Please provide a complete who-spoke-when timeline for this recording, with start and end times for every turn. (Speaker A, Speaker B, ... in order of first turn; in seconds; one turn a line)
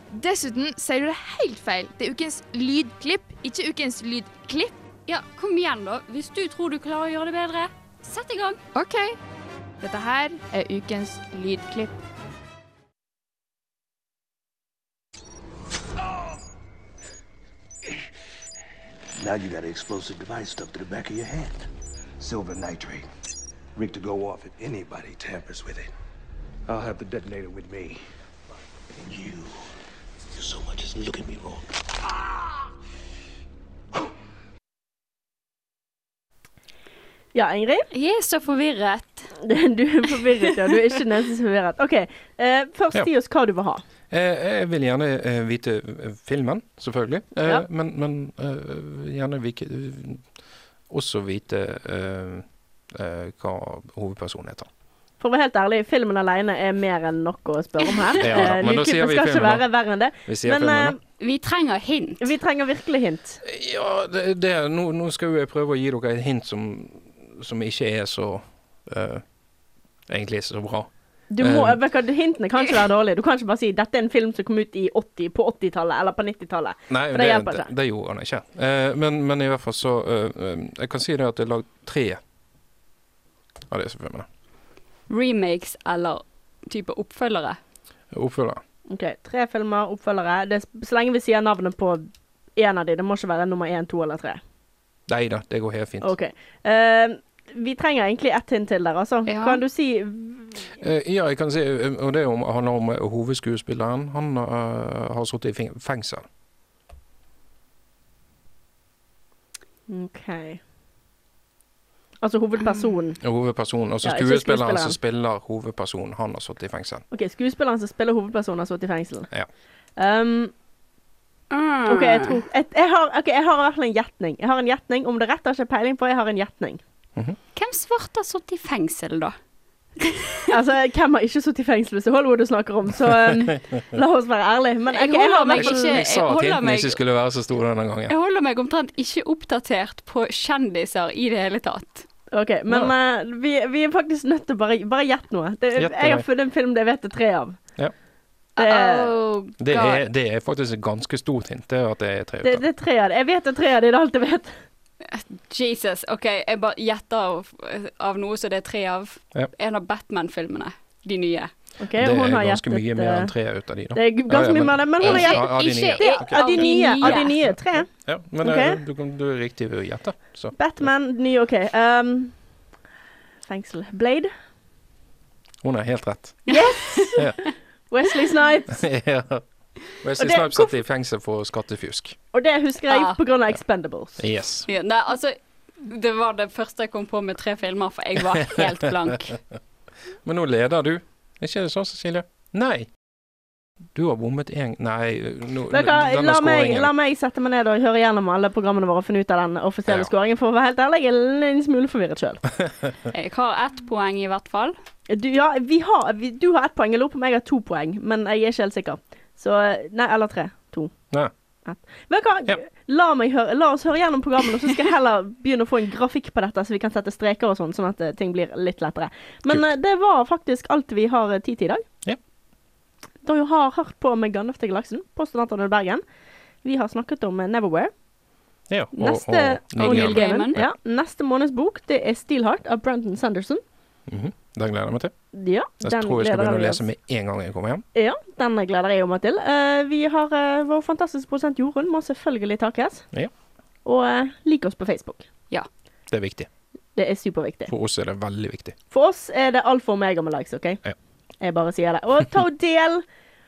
Speaker A: 0.1-4.8
Speaker B: 5.1-8.6
Speaker A: 8.7-9.2
Speaker A: 9.8-12.0
Speaker C: 19.2-21.7
Speaker C: 22.2-23.1
Speaker C: 23.8-25.9
Speaker C: 26.7-28.0
Speaker C: 29.0-29.6
Speaker C: 30.4-31.8
Speaker D: 37.3-37.9
Speaker B: 37.9-39.3
Speaker D: 39.4-43.8
Speaker E: 44.1-50.3
Speaker E: 50.9-54.7
Speaker D: 55.2-61.0
Speaker E: 58.2-59.6
Speaker E: 60.2-61.0
Speaker B: 61.2-62.3
Speaker D: 62.2-63.4
Speaker E: 63.4-69.2
Speaker E: 70.1-71.8
Speaker D: 71.3-77.7
Speaker E: 76.9-82.2
Speaker E: 83.7-84.3
Speaker B: 85.1-87.6
Speaker E: 88.1-88.6
Speaker D: 88.9-94.4
Speaker E: 95.1-96.1
Speaker D: 96.0-100.7
Speaker B: 99.3-99.6
Speaker E: 100.8-106.3
Speaker D: 109.9-110.6
Speaker D: 112.2-113.2
Speaker E: 113.2-117.0
Speaker D: 114.0-115.0
Speaker D: 117.1-119.3
Speaker D: 120.0-120.5
Speaker B: 121.5-122.3
Speaker D: 121.9-126.8
Speaker B: 127.5-129.3
Speaker B: 130.0-130.4
Speaker D: 130.5-136.0
Speaker E: 133.0-133.3
Speaker B: 134.9-137.0
Speaker E: 135.5-138.1
Speaker B: 138.1-142.1
Speaker D: 142.3-147.6
Speaker E: 142.7-142.9
Speaker E: 145.7-146.3
Speaker B: 148.6-150.0
Speaker D: 148.6-149.1
Speaker E: 149.6-152.7
Speaker D: 152.4-154.5
Speaker B: 155.1-161.5
Speaker D: 161.8-163.3
Speaker E: 162.0-167.4
Speaker D: 163.9-167.9
Speaker B: 165.0-167.4
Speaker E: 167.9-170.6
Speaker D: 168.4-168.8
Speaker D: 170.6-172.3
Speaker D: 173.5-174.3
Speaker E: 175.6-176.5
Speaker D: 176.5-177.3
Speaker B: 176.5-177.1
Speaker D: 177.9-178.8
Speaker E: 178.7-179.4
Speaker E: 180.0-182.2
Speaker D: 180.2-180.7
Speaker D: 182.3-184.2
Speaker B: 182.9-183.2
Speaker E: 184.2-184.7
Speaker B: 184.7-189.4
Speaker E: 188.4-189.3
Speaker E: 190.2-192.9
Speaker E: 193.9-196.9
Speaker D: 195.7-202.4
Speaker B: 203.1-204.8
Speaker D: 205.1-210.9
Speaker D: 211.6-221.8
Speaker D: 223.2-226.0
Speaker D: 226.6-227.9
Speaker E: 228.7-230.7
Speaker D: 229.0-233.6
Speaker B: 229.8-230.6
Speaker E: 234.1-235.1
Speaker D: 235.3-236.8
Speaker E: 235.8-237.8
Speaker D: 237.9-243.1
Speaker D: 243.8-245.2
Speaker E: 246.1-246.5
Speaker D: 247.0-247.7
Speaker E: 247.7-248.8
Speaker D: 248.9-250.8
Speaker D: 251.4-253.1